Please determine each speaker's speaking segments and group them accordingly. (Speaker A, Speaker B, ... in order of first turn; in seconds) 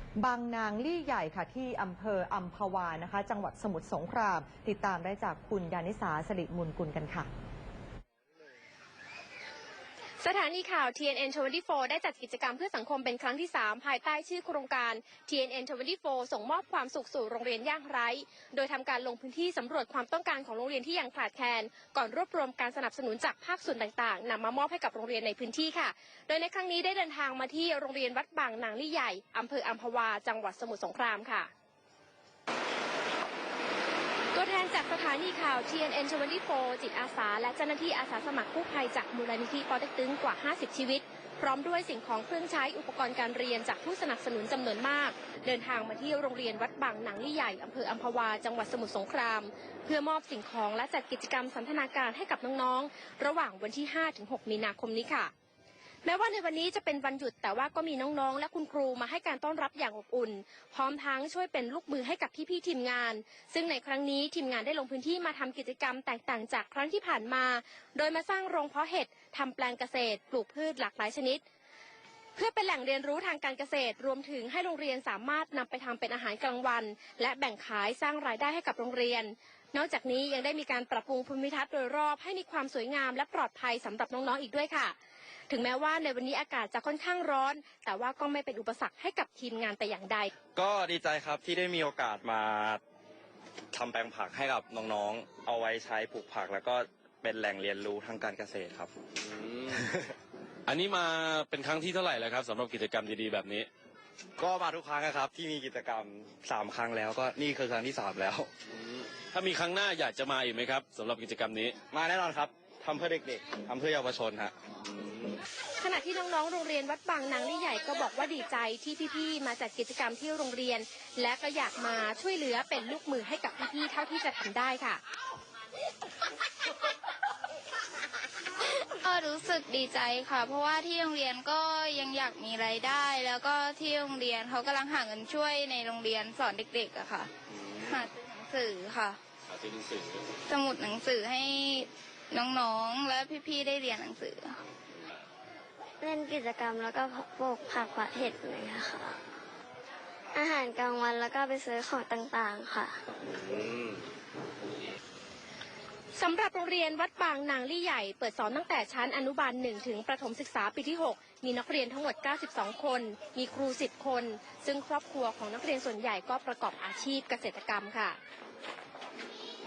Speaker A: 0.2-7.3
Speaker B: 10.2-31.5, 34.3-55.3, 56.0-71.4, 72.4-85.0, 85.5-90.3, 115.8-125.0, 156.2-168.2
Speaker C: 90.6-92.8, 93.7-98.9, 99.7-100.0, 104.4-108.5, 111.9-114.5
Speaker D: 99.3-99.8, 100.7-103.7, 109.3-111.8, 137.6-138.0, 139.5-140.2
Speaker E: 128.9-137.3, 137.9-139.2, 140.5-144.6
Speaker F: 146.0-149.2, 150.3-153.0